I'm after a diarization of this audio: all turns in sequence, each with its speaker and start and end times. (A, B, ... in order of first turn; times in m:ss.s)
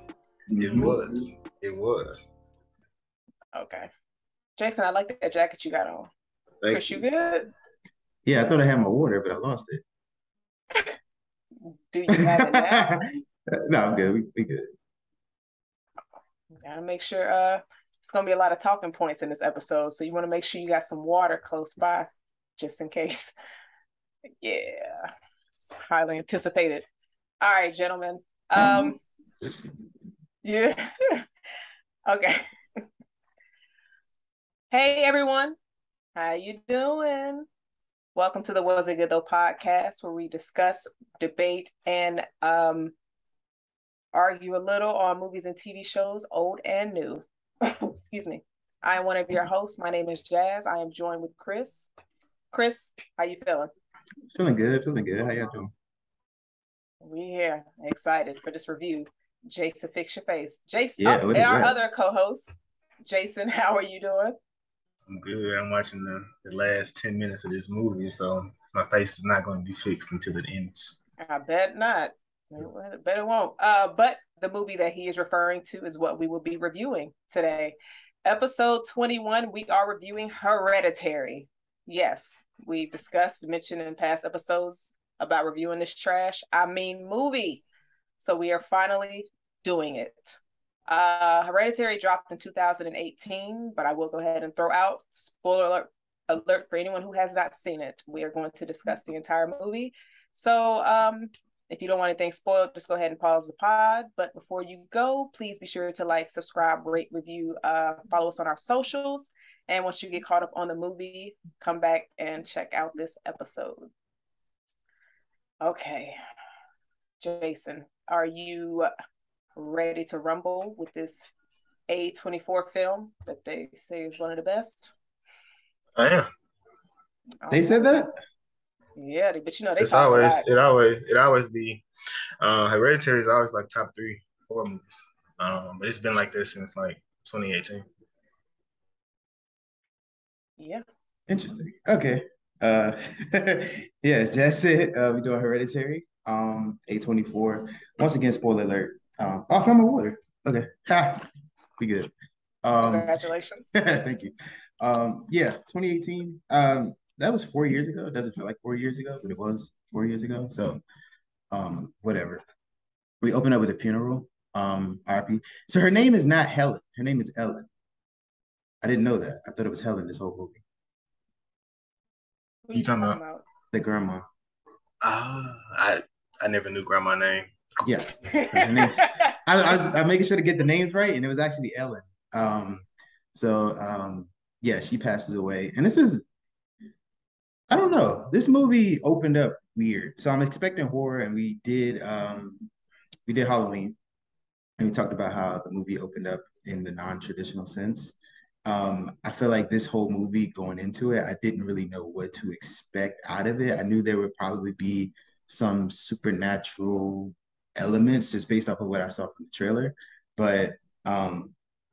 0:00.5-0:01.2 A
0:00.5-0:02.3 B
0:03.5-0:03.9 C
0:04.6-0:06.1 C
0:06.6-0:07.0 B
0:06.7-0:07.5 C
0:08.2-0:09.8 A
0:11.7-0:12.9 C
0:12.2-0:14.7 A
0:16.6-0:23.3 C
0:24.4-0:26.9 C
0:27.4-0:29.0 C
0:28.6-0:28.9 A
0:30.4-0:31.2 C
0:32.1-0:32.8 C
0:34.7-0:35.6 C
0:36.2-0:37.5 C
0:38.2-0:42.9 C
0:44.1-0:51.9 C
0:52.5-0:53.7 C
0:54.3-0:55.7 A
0:57.0-1:02.5 C
1:01.0-1:01.8 A
1:03.0-1:04.4 C
1:05.1-1:11.0 B
1:11.2-1:27.6 C
1:28.2-1:53.9 C
1:55.6-1:56.2 C
1:57.2-1:58.9 C
1:59.6-2:01.2 C
2:01.9-2:04.9 C
2:06.0-2:06.3 B
2:07.4-2:07.9 C
2:07.5-2:08.1 A
2:09.0-2:10.4 C
2:09.8-2:11.8 B
2:12.4-2:17.8 B
2:20.6-2:20.8 C
2:21.3-2:32.1 A
2:32.6-2:33.2 A
2:32.8-2:33.7 C
2:33.8-2:40.8 A
2:41.5-2:42.4 A
2:43.2-2:47.7 A
2:48.8-2:50.6 A
2:52.7-2:53.4 C
2:52.7-2:53.2 B
2:53.7-2:54.2 A
2:55.0-2:57.5 B
2:57.8-3:06.2 A
2:58.3-2:59.3 C
3:07.7-3:12.7 A
3:13.3-3:14.0 A
3:14.8-3:31.6 A